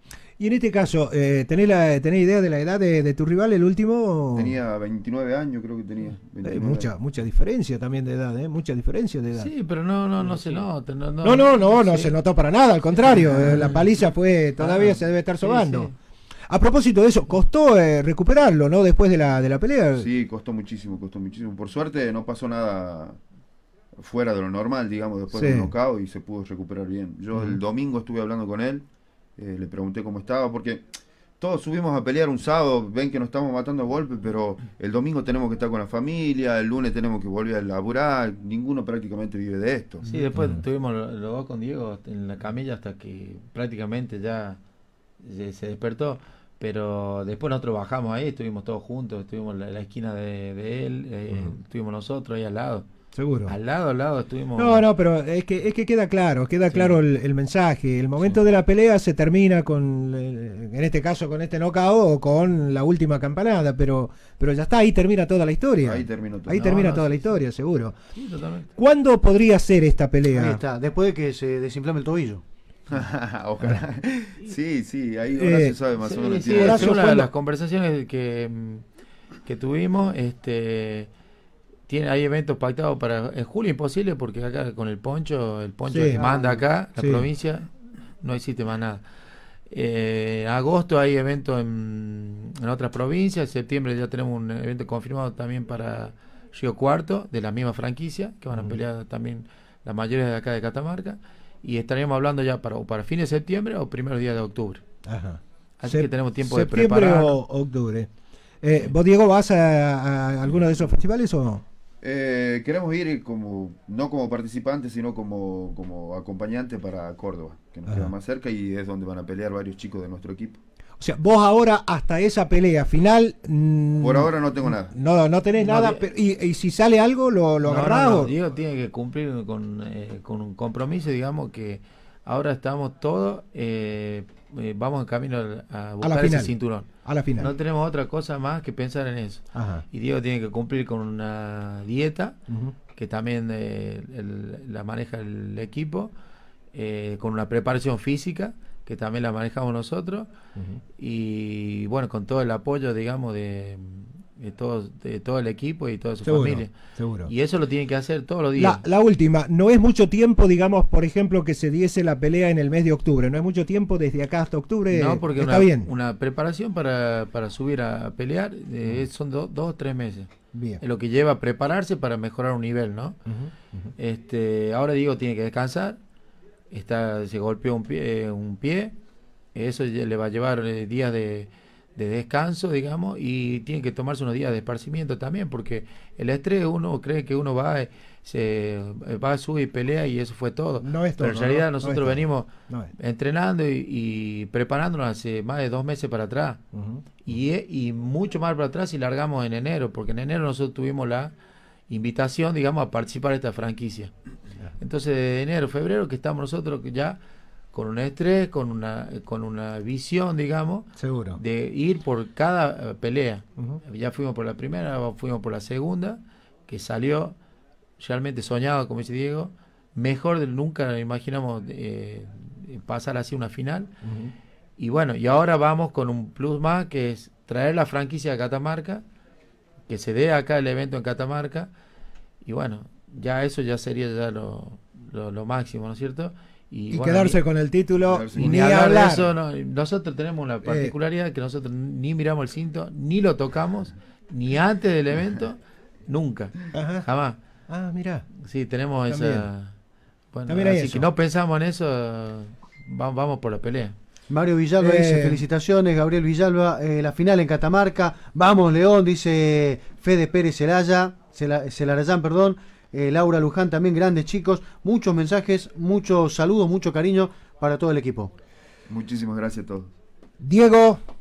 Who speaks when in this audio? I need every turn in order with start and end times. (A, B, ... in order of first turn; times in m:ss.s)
0:00.4-0:04.6 A
0:04.3-0:06.9 B
0:06.4-0:09.5 A
0:09.4-0:12.2 C
0:11.2-0:15.9 A
0:13.0-0:13.8 C
0:14.6-0:15.9 C
0:16.5-0:20.1 A
0:20.0-0:23.2 B
0:24.0-0:28.8 B
0:25.3-0:25.7 A
0:29.4-0:40.0 B
0:40.0-0:44.6 C
0:40.3-0:40.6 A
0:45.2-0:52.8 C
0:53.1-0:53.6 A
0:53.4-0:54.9 C
0:54.5-1:08.0 A
0:56.7-0:57.0 C
1:05.8-1:06.7 B
1:06.6-1:07.3 C
1:08.1-1:08.7 C
1:08.8-1:10.6 A
1:10.3-1:12.4 D
1:12.9-1:16.9 B
1:15.3-1:15.8 A
1:16.0-1:18.8 C
1:16.5-1:17.3 A
1:19.4-1:21.1 C
1:21.9-1:27.7 C
1:25.9-1:26.3 A
1:27.0-1:27.3 A
1:28.2-1:29.0 C
1:29.7-1:44.8 C
1:45.0-1:48.1 A
1:45.8-1:47.4 C
1:48.6-1:51.6 A
1:52.0-2:00.6 B
2:01.0-2:08.3 A
2:04.0-2:05.0 B
2:05.6-2:06.1 C
2:07.6-2:16.9 C
2:16.0-2:17.5 A
2:17.4-2:22.4 C
2:19.5-2:19.8 A
2:22.5-2:22.7 A
2:22.9-2:26.1 C
2:26.7-2:30.3 C
2:31.0-2:36.7 C
2:36.2-2:37.3 A
2:37.2-2:38.8 C
2:38.6-2:45.9 A
2:44.9-2:53.2 C
2:50.5-2:50.8 A
2:53.3-2:53.9 A
2:54.0-2:56.0 C
2:56.7-2:58.9 C
2:59.5-3:16.6 C
3:10.8-3:12.9 A
3:16.7-3:17.2 A
3:17.2-3:21.3 C
3:21.9-3:24.1 C
3:24.8-3:27.2 C
3:27.7-3:37.3 C
3:31.0-3:31.4 A
3:38.0-3:43.9 C
3:44.0-3:44.3 A
3:44.8-3:49.0 C
3:49.9-3:51.7 C
3:52.4-3:57.4 C
3:56.9-3:59.3 A
3:58.0-3:58.6 B
3:58.3-4:07.4 C
4:00.6-4:00.9 A
4:06.7-4:07.1 A
4:07.7-4:08.2 A
4:08.4-4:09.7 C
4:09.1-4:09.5 A
4:10.3-4:13.9 C
4:10.5-4:11.1 A
4:14.3-4:28.3 D
4:14.8-4:15.4 A
4:28.9-4:29.9 B
4:30.4-4:31.0 A